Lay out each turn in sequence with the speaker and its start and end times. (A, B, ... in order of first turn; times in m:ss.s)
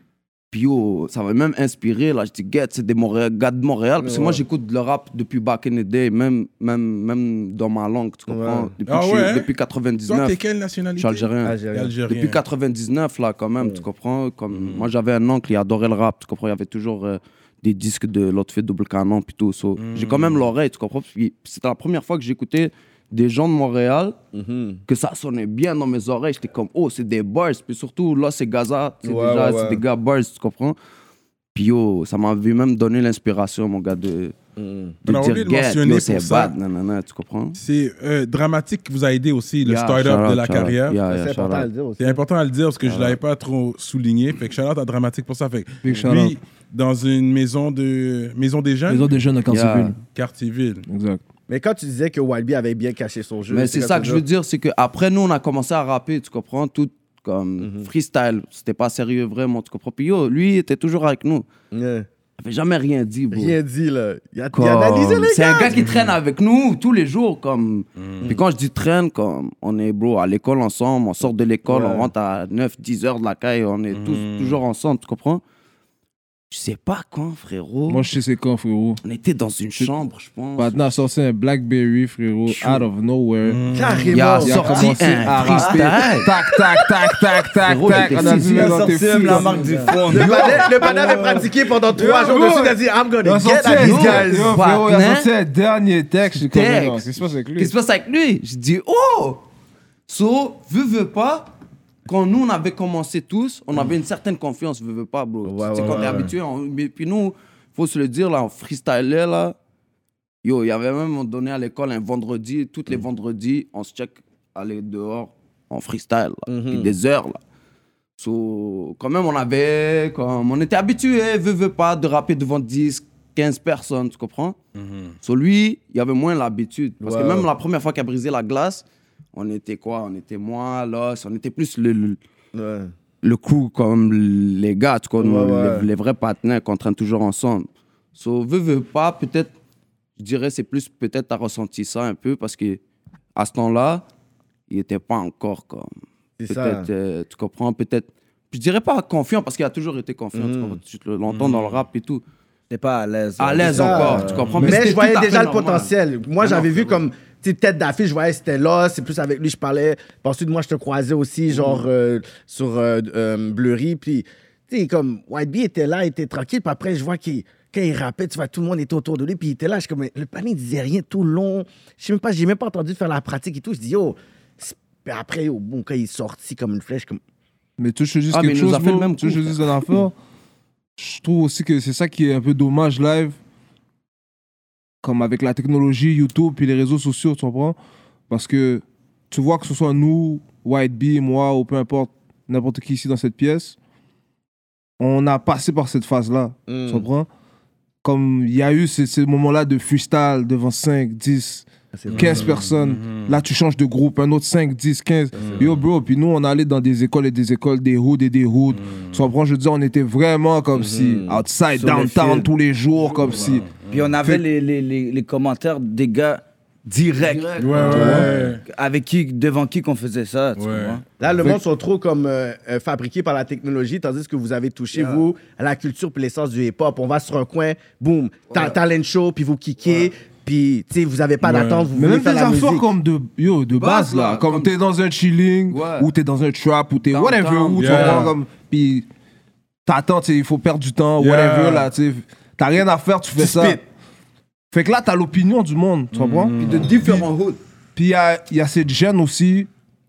0:00.5-0:10.3 A
0:04.0-0:04.4 B
0:08.3-0:08.7 B
0:08.8-0:09.5 C
0:10.1-0:12.4 C
0:11.0-0:11.6 A
0:11.4-0:12.0 B
0:12.1-0:24.2 A
0:14.5-0:14.9 C
0:19.8-0:20.5 C
0:24.3-0:24.8 B
0:24.9-0:30.8 A
0:29.0-0:29.8 B
0:31.5-0:34.3 A
0:34.6-0:35.0 B
0:35.0-0:37.6 A
0:35.1-0:36.5 C
0:37.6-0:41.0 C
0:39.6-0:41.7 A
0:41.0-0:42.2 B
0:42.0-0:49.1 C
0:42.8-0:43.2 A
0:45.8-0:46.4 D
0:48.9-0:50.0 D
0:49.5-0:49.9 A
0:50.1-0:50.8 C
0:50.9-0:51.2 D
0:51.5-0:54.2 B
0:53.5-1:01.4 A
0:57.6-0:57.9 B
1:01.7-1:02.1 B
1:02.4-1:03.6 A
1:03.3-1:05.7 B
1:04.5-1:15.4 A
1:05.7-1:06.2 C
1:08.0-1:08.4 C
1:11.6-1:12.1 B
1:13.9-1:14.6 C
1:16.5-1:18.1 A
1:17.9-1:19.0 D
1:19.0-1:21.0 A
1:20.6-1:23.6 D
1:22.5-1:22.8 A
1:23.4-1:24.1 C
1:23.7-1:25.6 B
1:24.1-1:26.3 A
1:24.4-1:37.7 D
1:27.6-1:31.2 A
1:28.1-1:30.7 E
1:29.8-1:34.6 B
1:33.7-1:35.3 A
1:36.3-1:39.4 A
1:40.1-1:41.5 A
1:42.0-1:49.6 A
1:45.4-1:46.3 B
1:50.4-1:57.4 A
1:56.5-1:56.9 B
1:58.2-2:04.6 A
2:04.8-2:05.1 C
2:05.2-2:12.2 A
2:07.0-2:07.5 B
2:12.5-2:12.9 B
2:13.2-2:19.5 A
2:15.2-2:15.9 B
2:20.2-2:22.8 A
2:23.4-2:24.0 A
2:24.7-2:25.9 A
2:26.4-2:26.9 B
2:26.5-2:32.2 A
2:30.3-2:30.8 B
2:31.3-2:31.8 C
2:32.7-2:34.5 E
2:33.4-2:37.0 A
2:33.6-2:57.2 B
2:34.4-2:34.8 C
2:41.5-2:41.8 A
2:57.8-3:00.1 D
2:58.3-2:59.8 A
3:01.0-3:03.4 D
3:05.0-3:07.8 D
3:08.3-3:13.8 D
3:15.0-3:17.3 D
3:16.7-3:17.0 B
3:18.0-3:33.7 D
3:21.9-3:22.7 B
3:22.1-3:23.4 C
3:25.4-3:25.7 B
3:25.4-3:25.8 C
3:28.7-3:29.2 C
3:30.8-3:32.4 B
3:33.4-3:34.1 C
3:33.9-3:41.0 E
3:37.2-3:38.2 A
3:37.6-3:38.6 C
3:37.8-3:38.3 D
3:37.9-3:38.5 B
3:40.6-3:41.0 C
3:41.2-3:52.9 B
3:44.9-3:45.2 A
3:48.5-3:48.8 A
3:51.4-3:51.9 C
3:51.9-3:59.1 D
3:53.8-3:54.7 A
3:55.7-3:56.1 A
3:57.1-3:58.3 A
3:57.8-3:58.3 C
3:59.8-4:03.8 D
4:01.2-4:01.9 C
4:04.7-4:07.2 D
4:06.1-4:07.1 C
4:06.6-4:07.6 A
4:07.9-4:09.7 D